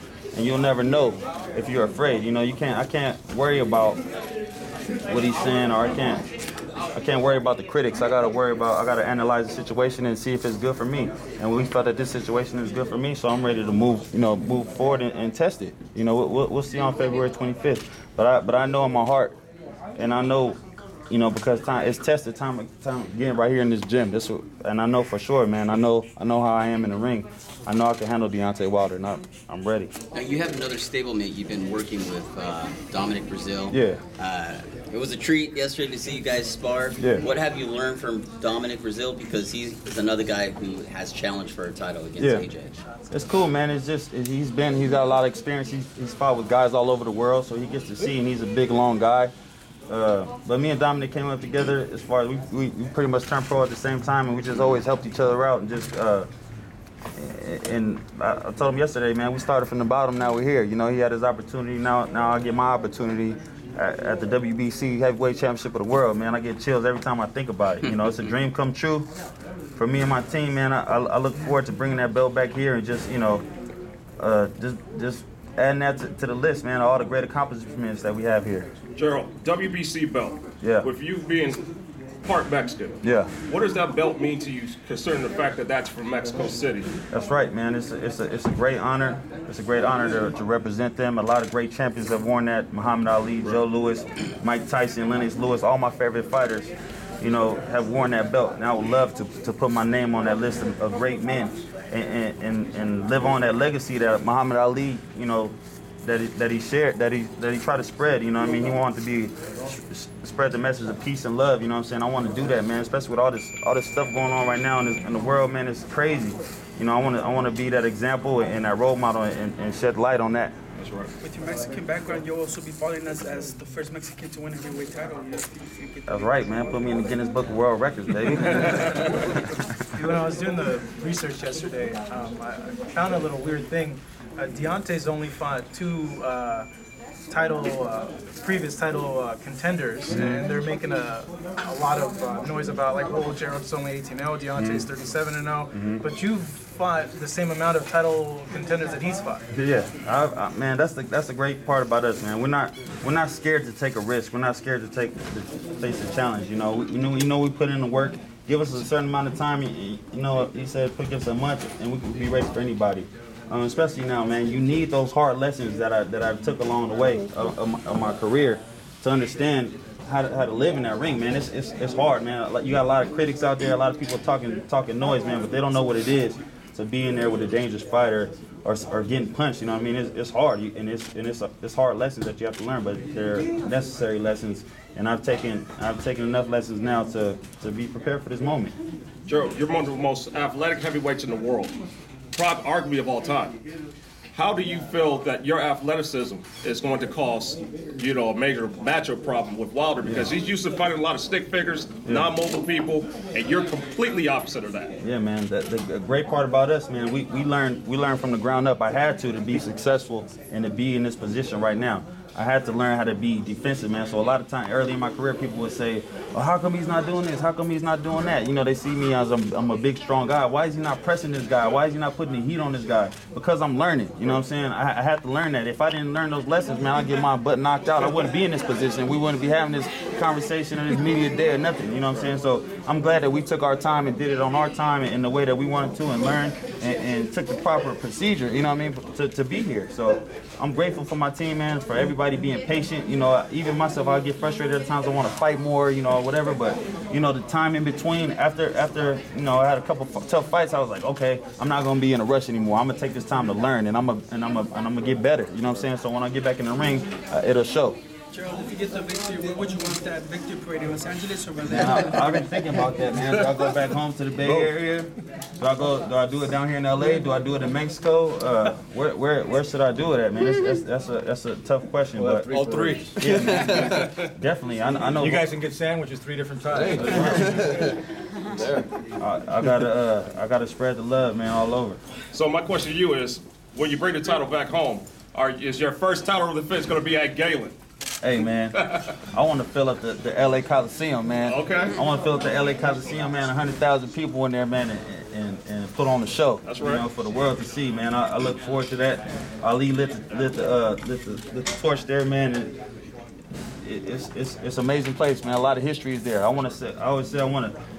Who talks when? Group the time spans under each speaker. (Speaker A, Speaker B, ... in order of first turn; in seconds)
Speaker A: 0.3-4.0, 5.1-6.2, 6.9-19.4, 19.9-20.6, 21.1-29.9, 33.7-34.0, 37.0-37.2, 42.2-42.5, 43.1-49.3, 49.9-56.3, 57.1-69.1, 69.8-73.4, 74.2-78.7, 80.6-80.9, 83.0-83.3, 87.1-120.5, 126.1-129.6, 140.1-140.4, 144.6-144.8, 145.7-146.0, 149.5-188.7, 200.0-200.3, 205.0-258.0, 261.7-272.6, 273.1-275.6, 276.9-277.6, 279.2-282.0, 288.2-302.7, 303.8-307.7
Speaker B: 30.1-42.8
Speaker C: 79.0-81.6, 82.2-86.9, 120.8-121.1, 189.2-191.7, 192.3-193.6, 194.3-204.9, 282.3-287.8, 291.4-291.9, 296.6-297.1
Speaker D: 121.2-126.4, 258.3-262.4
Speaker E: 129.9-136.7, 137.3-149.4
Speaker F: 264.4-264.7, 272.2-274.2, 275.1-278.0, 278.5-278.9